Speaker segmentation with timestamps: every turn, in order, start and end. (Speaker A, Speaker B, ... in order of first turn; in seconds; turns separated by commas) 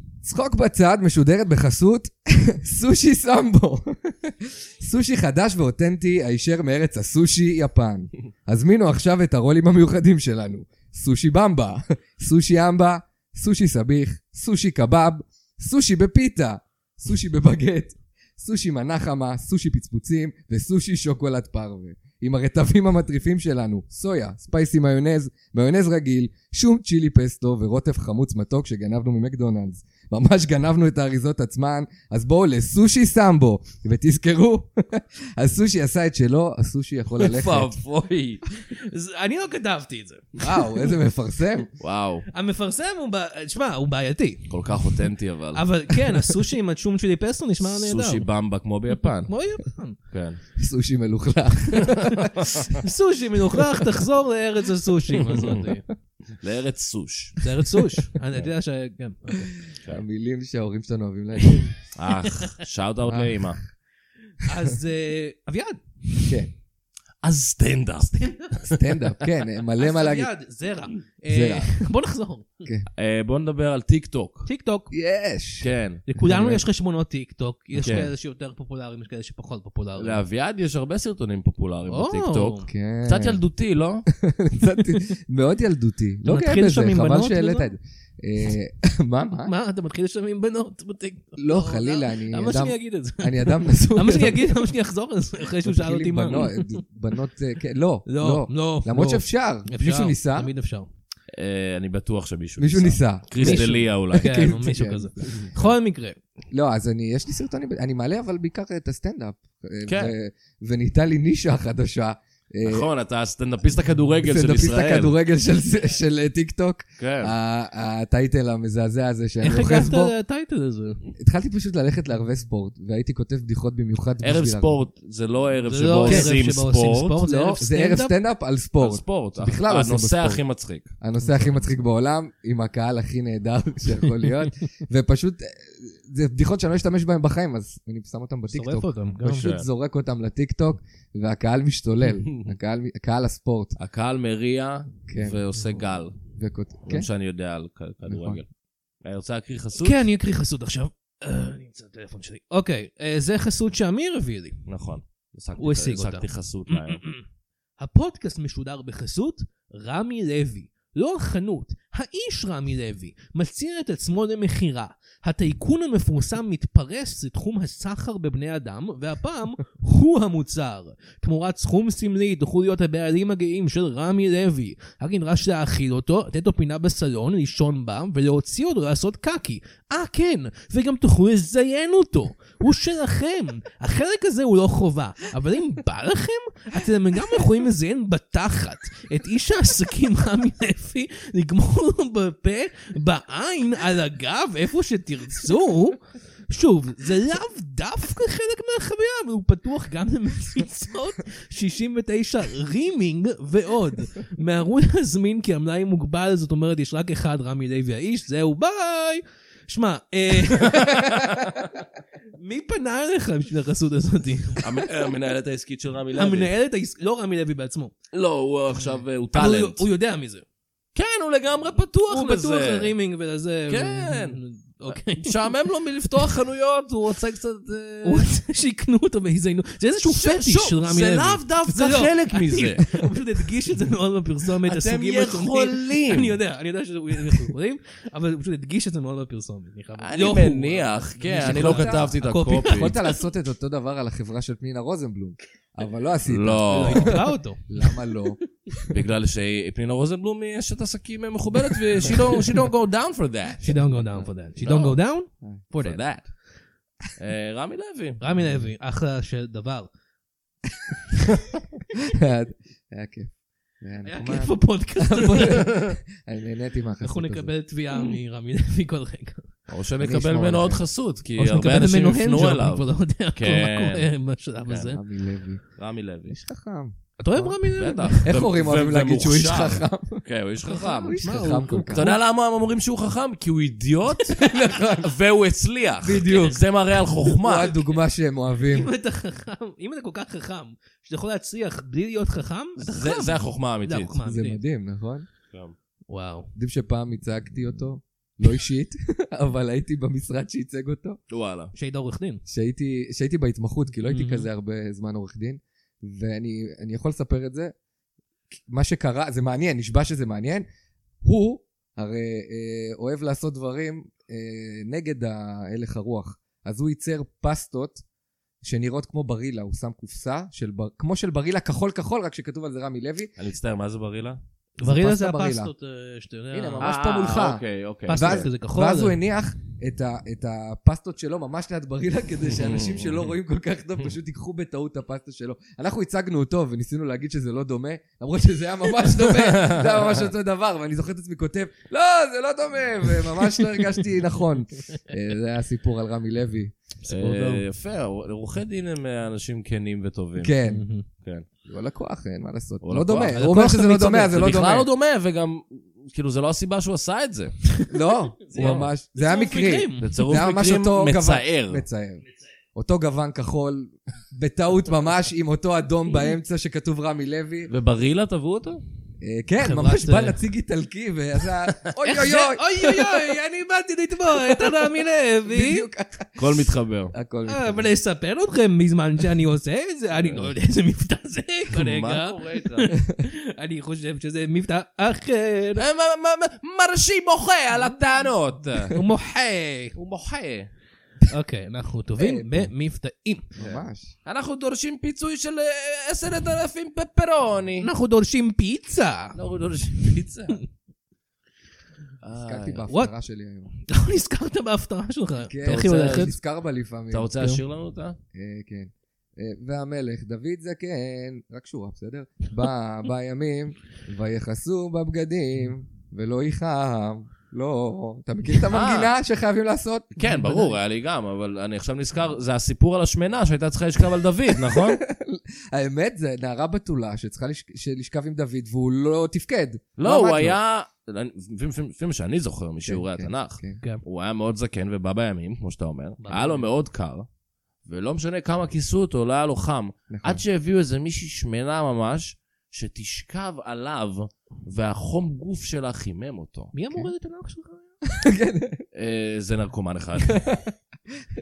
Speaker A: 0.2-37.8, Speaker B: 37.2-38.4, Speaker C: 38.6-40.6, Speaker A: 40.4-41.7, Speaker B: 41.8-42.3, Speaker C: 42.3-44.5, Speaker B: 44.5-45.7, Speaker C: 45.5-48.2, Speaker B: 47.6-49.3, Speaker C: 49.3-50.0, Speaker B: 50.1-50.4, Speaker A: 50.6-52.5, Speaker B: 51.8-52.7, Speaker C: 52.8-55.9, Speaker B: 55.2-55.7, Speaker B: 56.4-57.4, Speaker C: 57.4-59.5, Speaker A: 59.9-61.8, Speaker B: 62.0-63.6, Speaker A: 63.0-63.6, Speaker C: 64.4-66.3, Speaker A: 66.3-66.5, Speaker B: 67.2-69.3, Speaker A: 68.7-70.3, Speaker C: 69.8-72.6, Speaker A: 71.3-71.7, Speaker B: 73.0-74.5, Speaker C: 74.5-74.9, Speaker A: 74.9-76.6, Speaker B: 75.6-76.0, Speaker C: 76.1-80.2, Speaker B: 77.8-78.1, Speaker B: 80.0-84.1, Speaker C: 81.9-82.7, Speaker A: 82.7-83.4, Speaker A: 84.1-89.5, Speaker C: 86.2-87.7, Speaker C: 89.5-96.8, Speaker A: 91.4-94.7, Speaker A: 95.6-100.5, Speaker C: 98.1-100.9, Speaker B: 101.3-104.5, Speaker A: 102.6-105.5, Speaker C: 103.4-106.2, Speaker A: 106.5-112.9, Speaker B: 109.9-110.1, Speaker B: 112.6-115.2, Speaker A: 114.2-120.1, Speaker B: 117.0-117.3, Speaker C: 119.4-121.0, Speaker A: 121.2-124.8, Speaker B: 124.2-127.2, Speaker C: 125.7-128.1, Speaker A: 126.1-126.4, Speaker A: 127.2-130.4, Speaker B: 128.8-130.9, Speaker A: 131.0-143.8, Speaker C: 131.2-131.5, Speaker C: 138.5-139.5, Speaker B: 139.3-139.7, Speaker B: 142.2-142.5, Speaker B: 143.8-146.2, Speaker A: 145.1-145.4, Speaker A: 146.4-147.1, Speaker B: 146.8-148.5, Speaker A: 148.1-148.4, Speaker B: 149.0-150.0, Speaker C: 149.8-154.6, Speaker B: 154.7-157.0, Speaker C: 155.6-157.2, Speaker C: 157.8-211.5, Speaker B: 210.5-211.7, Speaker C: 212.3-214.9, Speaker B: 214.6-216.5, Speaker C: 216.2-217.9, Speaker B: 218.1-219.8, Speaker C: 219.3-220.4, Speaker B: 220.9-222.9, Speaker C: 222.1-225.4, Speaker B: 223.7-228.3, Speaker C: 228.0-243.2, Speaker B: 230.1-232.9, Speaker B: 234.6-236.4, Speaker B: 240.0-242.9, Speaker A: 241.3-242.1, Speaker A: 242.7-248.4, Speaker B: 246.3-247.2, Speaker C: 246.7-248.2, Speaker B: 248.9-253.8, Speaker C: 253.6-256.0, Speaker B: 254.6-255.0, Speaker B: 255.8-256.3, Speaker B: 257.2-258.2, Speaker C: 258.2-259.9, Speaker A: 262.1-267.5, Speaker C: 264.0-265.7, Speaker B: 265.5-265.9, Speaker C: 267.0-269.5, Speaker B: 269.7-274.1, Speaker A: 270.0-270.8, Speaker C: 271.4-275.0, Speaker A: 274.8-275.6, Speaker B: 275.8-276.4, Speaker A: 276.3-277.6, Speaker C: 277.2-278.3, Speaker B: 277.8-281.3, Speaker A: 278.2-282.1, Speaker C: 281.2-282.2, Speaker B: 281.9-287.8, Speaker A: 284.4-285.2, Speaker A: 286.0-286.6, Speaker A: 287.3-288.9, Speaker C: 288.7-294.6, Speaker B: 292.8-294.2, Speaker A: 294.2-295.3, Speaker C: 296.1-296.5, Speaker A: 296.6-301.2, Speaker B: 301.3-301.7, Speaker C: 301.7-302.4, Speaker A: 302.5-307.7, Speaker C: 304.1-304.5, Speaker A: 308.5-310.7, Speaker A: 311.2-318.0, Speaker A: 318.6-323.3, Speaker B: 323.4-324.4, Speaker C: 324.8-326.9, Speaker A: 324.8-325.7, Speaker A: 326.5-346.8, Speaker B: 326.8-328.5, Speaker C: 328.1-329.2, Speaker B: 332.5-333.3, Speaker B: 339.2-340.1, Speaker C: 347.0-347.6, Speaker B: 347.1-350.5, Speaker A: 350.4-350.9, Speaker C: 350.6-351.1, Speaker B: 351.2-351.5, Speaker A: 351.6-354.9, Speaker B: 352.8-357.6, Speaker C: 353.3-354.2, Speaker C: 357.7-360.2, Speaker A: 357.9-362.2, Speaker B: 358.6-358.9, Speaker B: 360.0-361.8, Speaker A: 362.8-367.7, Speaker B: 367.7-368.8, Speaker A: 369.2-373.3, Speaker C: 369.6-370.4, Speaker C: 372.0-375.9, Speaker A: 375.5-377.9, Speaker B: 376.4-377.1, Speaker C: 377.5-385.9, Speaker B: 380.2-380.5, Speaker B: 381.7-382.9, Speaker B: 385.8-389.0, Speaker C: 388.9-390.0, Speaker B: 390.0-390.7, Speaker C: 391.3-393.5, Speaker A: 392.2-392.7, Speaker A: 393.6-394.1, Speaker B: 393.6-397.9, Speaker C: 397.8-399.4, Speaker B: 399.4-400.6, Speaker B: 402.2-402.8, Speaker A: 402.4-403.7, Speaker C: 403.9-406.4, Speaker A: 405.5-407.5, Speaker B: 405.6-406.4, Speaker B: 407.1-408.2, Speaker A: 408.3-420.1, Speaker B: 418.7-419.1, Speaker B: 420.2-425.0, Speaker C: 420.2-420.8, Speaker A: 424.5-430.6, Speaker B: 430.0-437.3, Speaker A: 432.8-433.8, Speaker C: 436.2-436.7, Speaker B: 437.9-446.7, Speaker A: 440.1-440.4, Speaker C: 446.7-447.9, Speaker A: 448.1-448.8, Speaker B: 448.9-450.4, Speaker A: 450.3-451.2